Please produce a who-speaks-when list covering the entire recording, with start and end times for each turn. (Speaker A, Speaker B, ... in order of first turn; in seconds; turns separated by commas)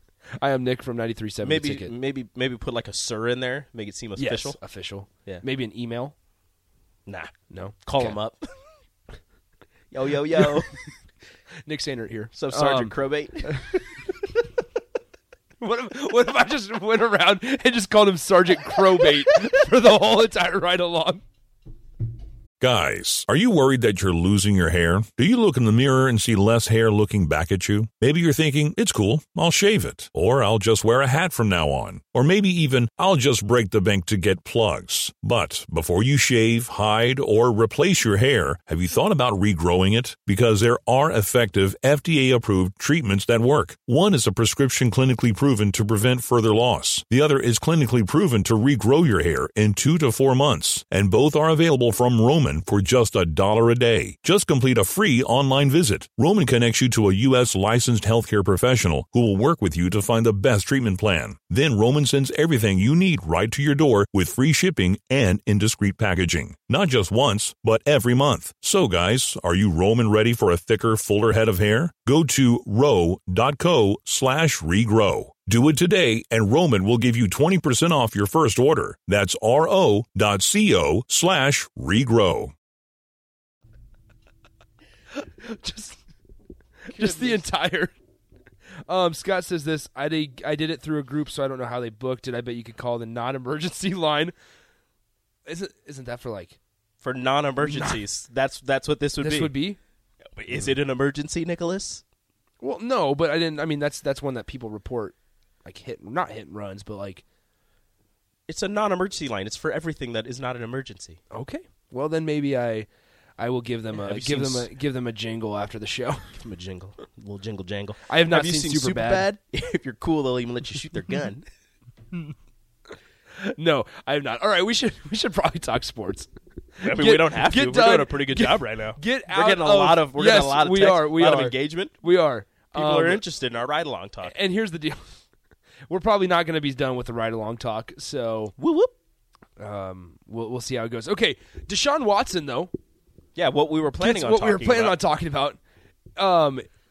Speaker A: 0.4-1.9, Speaker B: 1.4-4.6, Speaker A: 4.2-6.1, Speaker B: 7.1-7.3, Speaker A: 7.5-8.2, Speaker B: 7.8-8.5, Speaker B: 9.9-10.7, Speaker A: 11.7-13.8, Speaker B: 12.3-13.6, Speaker A: 15.6-21.2, Speaker C: 22.6-82.5, Speaker A: 85.2-86.0, Speaker A: 86.9-87.9, Speaker B: 87.0-87.4, Speaker A: 88.9-94.3, Speaker A: 95.5-96.6, Speaker B: 97.0-99.5, Speaker A: 97.6-98.0, Speaker A: 99.2-99.8, Speaker B: 100.4-102.0, Speaker A: 102.6-107.2, Speaker B: 108.5-111.2, Speaker A: 111.3-112.9, Speaker A: 113.4-116.3, Speaker B: 113.9-114.7, Speaker B: 116.3-121.4, Speaker A: 118.1-119.3, Speaker A: 123.4-126.3, Speaker A: 126.8-133.2, Speaker B: 126.8-131.9, Speaker B: 132.7-134.3, Speaker A: 134.2-135.1, Speaker A: 135.9-138.5, Speaker B: 138.6-138.9, Speaker A: 139.6-142.7, Speaker B: 143.3-145.0, Speaker A: 144.0-145.6, Speaker A: 146.2-146.7